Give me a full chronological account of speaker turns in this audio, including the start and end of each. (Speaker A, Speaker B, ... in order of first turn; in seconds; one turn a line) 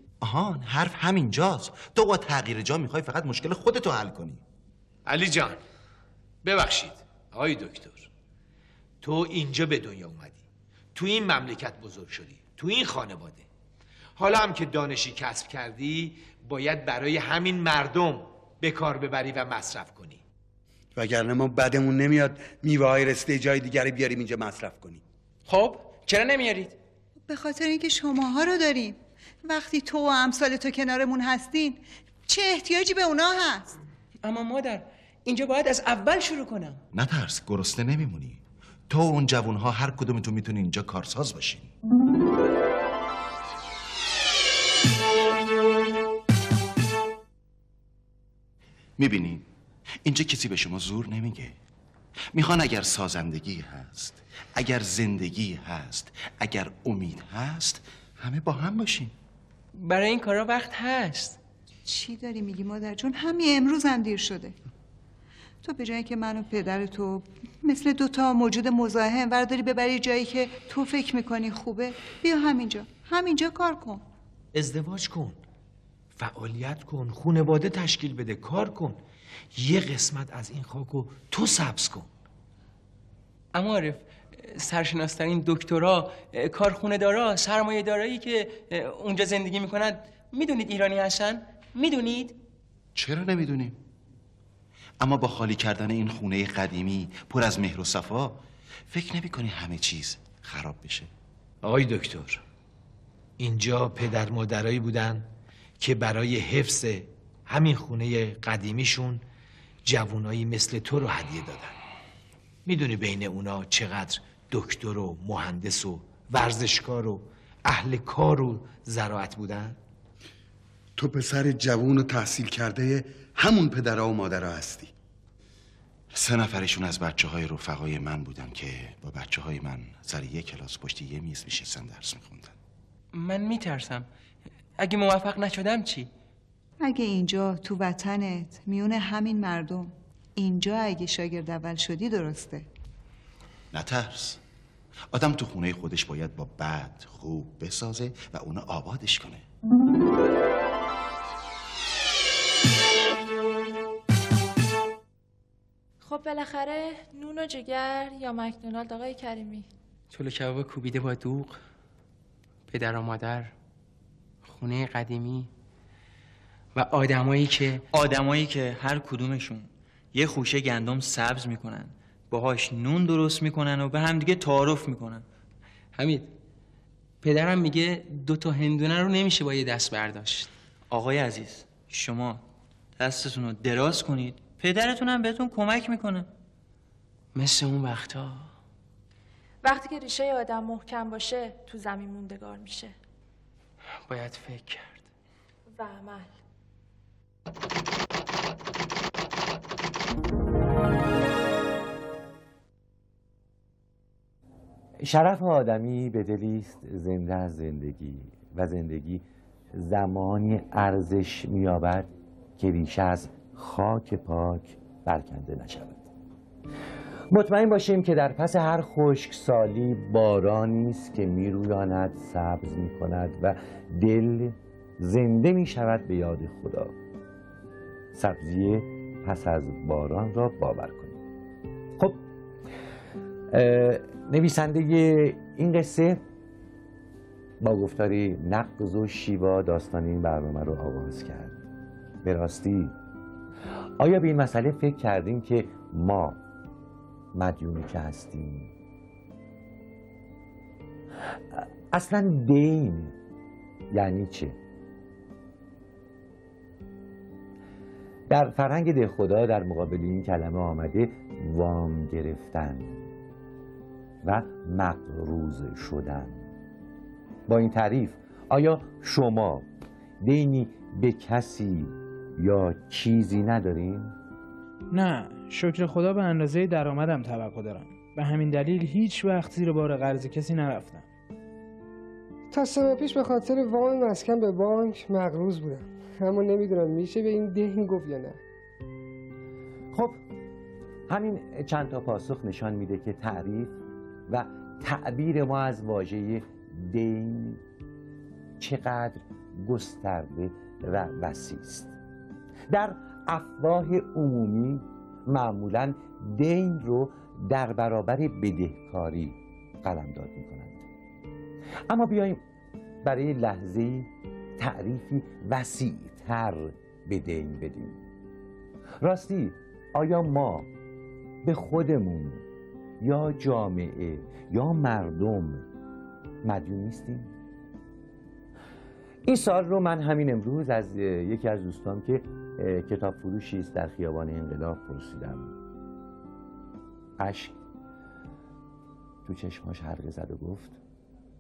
Speaker A: 0.2-4.4
Speaker B: 5.1-5.6
Speaker B: 6.5-8.1
Speaker B: 9.0-10.4
Speaker B: 10.9-13.4
Speaker B: 14.2-20.2
Speaker C: 21.0-25.0
Speaker D: 25.5-26.8
Speaker E: 27.3-33.8
Speaker D: 34.2-36.8
Speaker A: 36.9-41.7
Speaker A: 49.0-49.5
Speaker A: 50.0-51.5
Speaker A: 52.3-59.1
Speaker D: 59.8-61.4
Speaker E: 61.9-64.6
Speaker E: 65.6-74.0
Speaker B: 74.5-75.4
Speaker B: 76.2-79.0
Speaker B: 79.5-82.1
Speaker D: 83.5-92.4
Speaker A: 93.0-93.8
Speaker A: 95.0-101.1
Speaker B: 101.6-102.4
Speaker B: 103.4-105.3
Speaker B: 105.8-109.2
Speaker B: 109.9-111.8
Speaker B: 112.7-119.8
Speaker C: 121.0-124.9
Speaker A: 126.1-132.6
Speaker D: 133.1-134.1
Speaker D: 134.8-136.1
Speaker E: 136.8-142.7
Speaker A: 143.7-144.4
Speaker A: 145.1-149.4
Speaker F: 156.0-159.7
Speaker D: 160.1-161.6
Speaker D: 162.7-163.5
Speaker D: 164.4-165.5
Speaker D: 166.8-167.8
Speaker G: 167.9-175.2
Speaker D: 175.9-176.3
Speaker D: 177.2-180.5
Speaker G: 180.9-182.4
Speaker G: 183.0-186.3
Speaker D: 187.3-188.5
Speaker F: 189.6-192.9
Speaker D: 194.1-195.1
Speaker F: 195.8-196.3
Speaker H: 205.0-216.1
Speaker H: 217.3-226.9
Speaker H: 228.1-231.2
Speaker H: 233.5-236.2
Speaker H: 237.6-241.6
Speaker H: 242.2-242.9
Speaker H: 244.0-246.4
Speaker H: 247.3-248.7
Speaker H: 251.5-253.2
Speaker H: 253.9-254.6
Speaker H: 258.3-263.0
Speaker H: 264.2-266.4
Speaker H: 267.5-269.6
Speaker H: 270.2-274.1
Speaker I: 274.9-281.1
Speaker J: 282.5-288.4
Speaker H: 291.1-293.8
Speaker H: 294.3-297.6
Speaker H: 298.6-302.0
Speaker H: 302.7-310.9
Speaker H: 311.9-312.4
Speaker H: 313.0-318.0
Speaker H: 319.0-320.7
Speaker H: 321.4-322.4
Speaker H: 323.0-325.6
Speaker H: 326.4-327.3
Speaker H: 329.2-335.5
Speaker H: 337.2-337.6
Speaker H: 339.2-340.8